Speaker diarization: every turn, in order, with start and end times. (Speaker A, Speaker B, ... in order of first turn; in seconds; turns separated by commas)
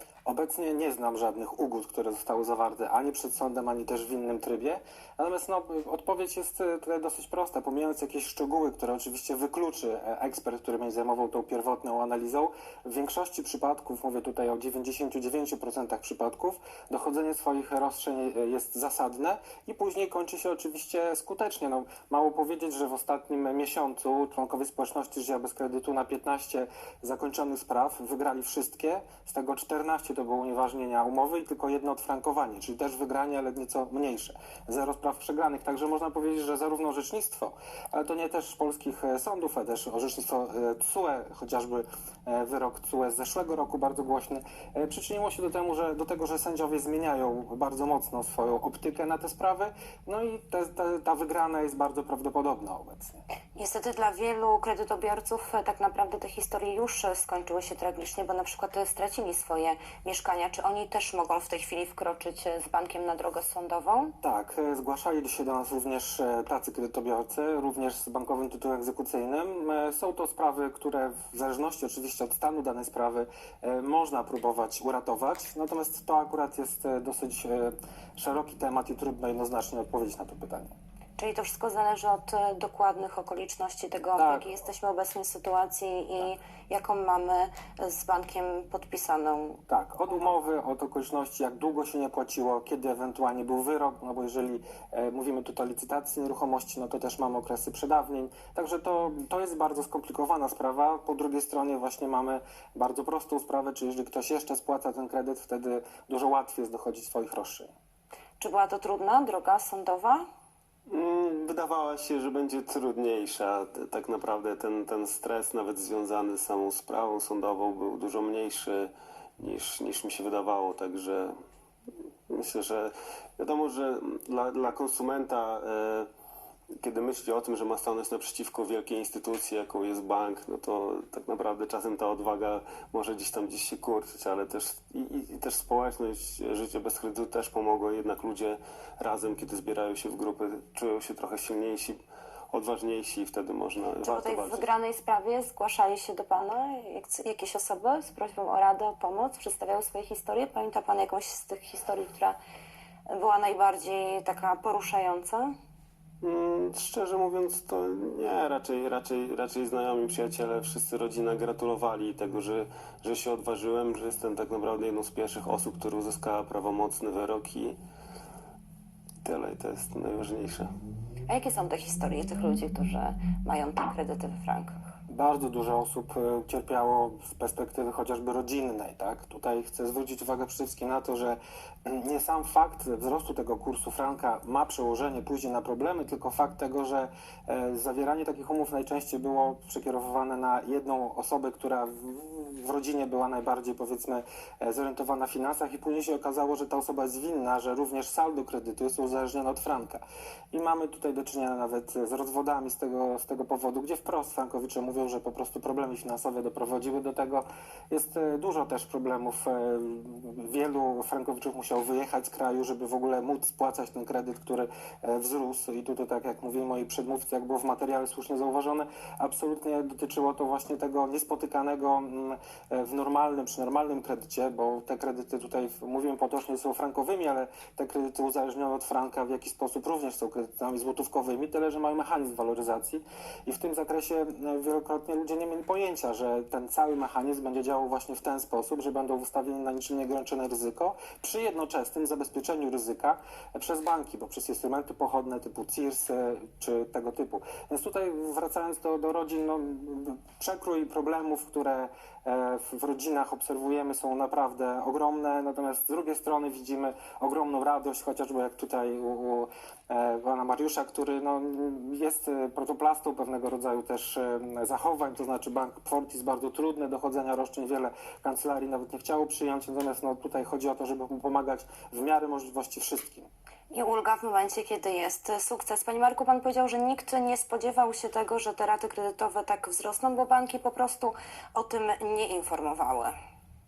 Speaker A: 0.3-53.2, Speaker B: 53.6-64.1, Speaker A: 64.2-80.7, Speaker B: 81.2-89.6, Speaker A: 84.2-84.5, Speaker A: 89.7-107.7, Speaker B: 108.4-110.2, Speaker C: 110.9-121.3, Speaker C: 122.3-126.1, Speaker C: 126.8-142.0, Speaker C: 142.5-144.7, Speaker B: 144.0-152.4, Speaker B: 153.1-155.5, Speaker C: 156.2-167.8, Speaker C: 169.2-170.7, Speaker B: 171.3-174.8, Speaker A: 175.1-273.3, Speaker B: 273.7-283.1